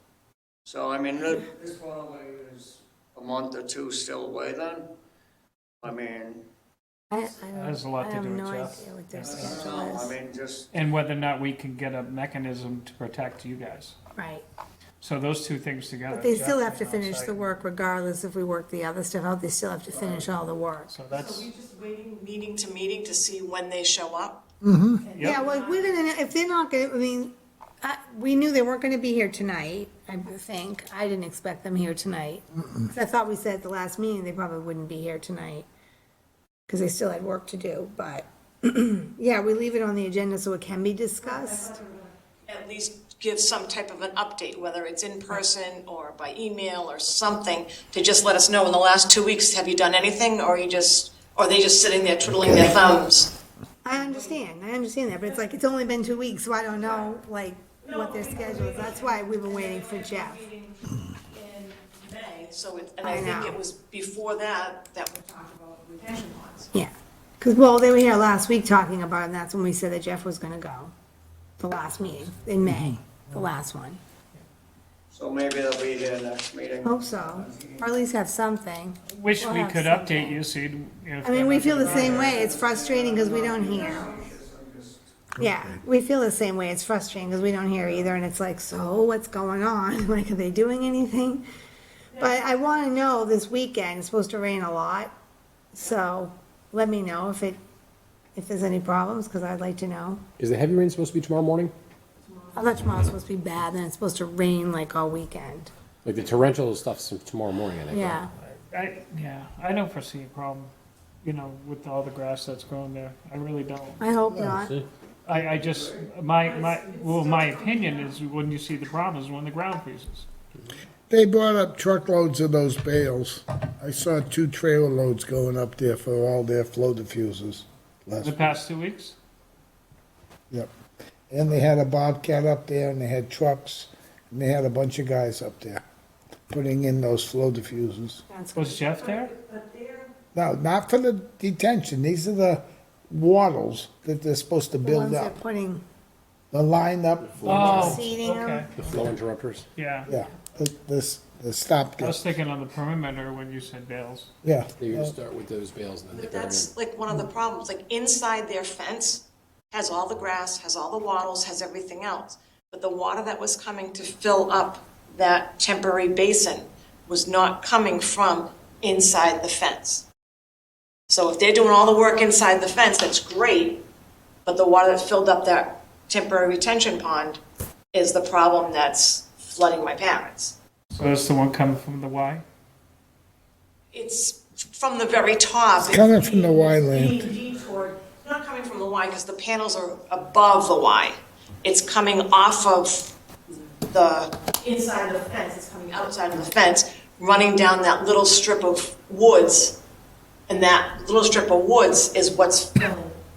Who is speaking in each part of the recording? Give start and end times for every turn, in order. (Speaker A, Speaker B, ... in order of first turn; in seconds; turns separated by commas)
Speaker A: 0.7-4.9, Speaker A: 5.8-6.4, Speaker B: 7.1-10.2, Speaker C: 7.5-9.5, Speaker A: 9.2-10.7, Speaker C: 10.7-13.9, Speaker B: 14.2-14.4, Speaker C: 15.0-17.5, Speaker B: 16.1-20.9, Speaker A: 19.9-20.2, Speaker C: 20.9-21.5, Speaker D: 21.1-24.4, Speaker E: 24.6-25.0, Speaker D: 25.0-26.1, Speaker C: 25.1-25.4, Speaker B: 25.2-35.7, Speaker B: 36.7-41.8, Speaker D: 41.6-41.9, Speaker D: 42.5-53.3, Speaker B: 53.8-60.4, Speaker D: 54.0-54.2, Speaker D: 56.8-57.1, Speaker D: 57.8-66.7, Speaker B: 63.0-63.6, Speaker B: 66.7-70.9, Speaker B: 71.6-74.0, Speaker A: 75.1-77.9, Speaker B: 76.8-80.4, Speaker C: 79.1-82.4, Speaker B: 81.2-84.1, Speaker A: 81.7-85.0, Speaker D: 83.7-84.1, Speaker B: 85.4-91.4, Speaker E: 85.4-85.7, Speaker B: 92.2-95.1, Speaker B: 95.7-97.6, Speaker B: 98.3-100.2, Speaker F: 100.4-101.7, Speaker B: 102.5-105.7, Speaker F: 106.0-108.2, Speaker B: 107.9-108.3, Speaker C: 108.4-110.7, Speaker C: 111.2-114.1, Speaker B: 114.0-114.7, Speaker F: 114.3-114.9, Speaker C: 115.2-120.3, Speaker A: 115.3-116.0, Speaker D: 116.5-118.1, Speaker E: 121.1-128.5, Speaker C: 128.2-129.2, Speaker E: 131.3-135.8, Speaker E: 136.5-138.2, Speaker B: 138.3-138.9, Speaker C: 138.6-139.3, Speaker D: 138.9-140.1, Speaker E: 140.3-145.4, Speaker B: 144.8-145.8, Speaker E: 146.5-148.0, Speaker F: 147.3-148.2, Speaker C: 147.4-148.7, Speaker B: 147.7-148.7, Speaker F: 148.8-149.7, Speaker C: 149.8-150.1, Speaker E: 150.1-152.2, Speaker C: 152.0-154.3, Speaker E: 154.4-155.1, Speaker F: 154.8-156.7, Speaker D: 156.1-170.1, Speaker D: 171.1-173.8, Speaker D: 174.4-177.4, Speaker D: 177.9-180.5, Speaker C: 180.9-182.4, Speaker D: 183.9-193.2, Speaker E: 185.8-187.3, Speaker D: 193.9-199.8, Speaker D: 200.5-203.2